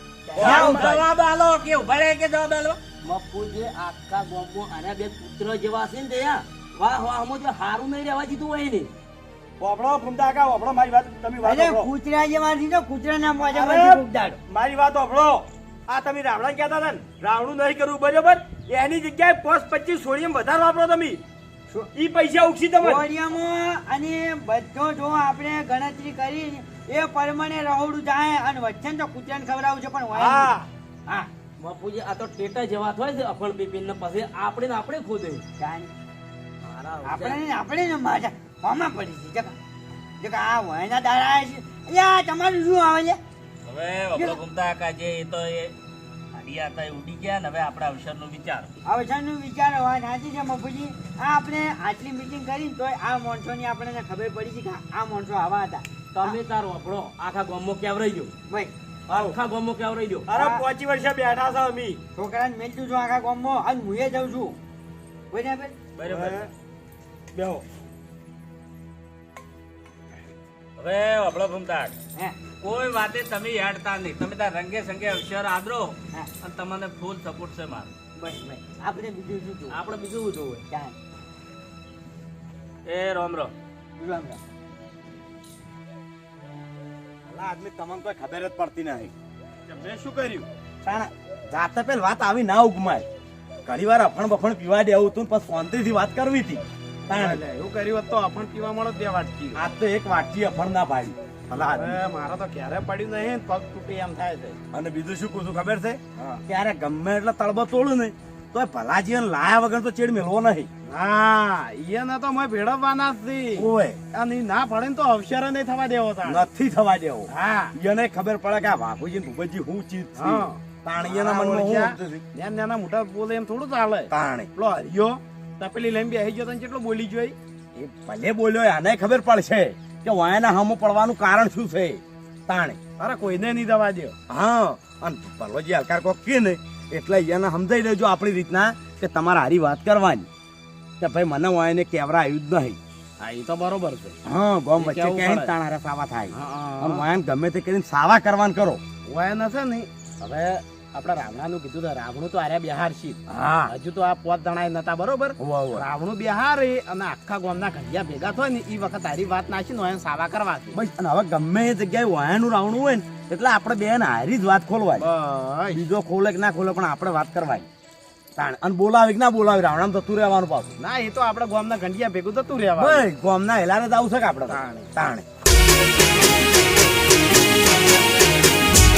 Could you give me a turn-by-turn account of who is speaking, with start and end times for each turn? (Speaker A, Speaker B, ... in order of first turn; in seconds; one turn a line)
Speaker A: 0.3-1.0
Speaker B: 0.3-2.8
Speaker C: 0.4-0.9
Speaker D: 3.0-8.9
Speaker C: 9.6-11.9
Speaker A: 11.4-14.4
Speaker C: 13.5-21.2
Speaker C: 21.9-23.1
Speaker A: 22.8-30.5
Speaker D: 31.6-35.4
Speaker A: 35.6-35.9
Speaker D: 36.6-37.4
Speaker A: 37.0-39.5
Speaker A: 40.2-43.2
Speaker B: 43.6-45.7
Speaker A: 44.1-44.4
Speaker B: 46.3-48.7
Speaker A: 48.8-56.4
Speaker D: 56.1-58.3
Speaker C: 59.1-59.3
Speaker D: 59.1-60.3
Speaker C: 60.3-62.0
Speaker A: 60.3-60.6
Speaker A: 62.1-64.6
Speaker A: 65.3-65.7
Speaker B: 66.0-66.5
Speaker C: 66.0-66.5
Speaker C: 67.3-67.6
Speaker B: 70.8-71.9
Speaker B: 72.6-77.9
Speaker A: 78.2-79.8
Speaker D: 79.7-80.6
Speaker A: 80.7-81.0
Speaker B: 82.8-83.5
Speaker A: 84.0-84.4
Speaker E: 87.3-89.1
Speaker F: 89.7-90.5
Speaker E: 90.8-93.0
Speaker E: 93.6-97.4
Speaker F: 97.1-99.6
Speaker E: 99.5-102.0
Speaker F: 101.7-104.6
Speaker E: 104.7-110.7
Speaker F: 110.8-116.5
Speaker E: 113.6-114.0
Speaker E: 116.2-122.2
Speaker F: 117.3-117.7
Speaker F: 120.2-127.3
Speaker E: 124.1-124.5
Speaker E: 127.8-132.8
Speaker F: 133.0-134.1
Speaker E: 134.3-140.3
Speaker E: 141.0-142.8
Speaker F: 143.2-144.2
Speaker E: 144.2-148.8
Speaker F: 144.8-145.5
Speaker F: 146.3-147.0
Speaker F: 149.1-160.8
Speaker E: 153.3-153.7
Speaker E: 155.4-155.8
Speaker E: 160.7-165.1
Speaker F: 165.0-165.8
Speaker E: 165.7-167.7
Speaker E: 168.3-170.8
Speaker F: 170.8-173.0
Speaker E: 172.8-175.2
Speaker F: 174.5-174.9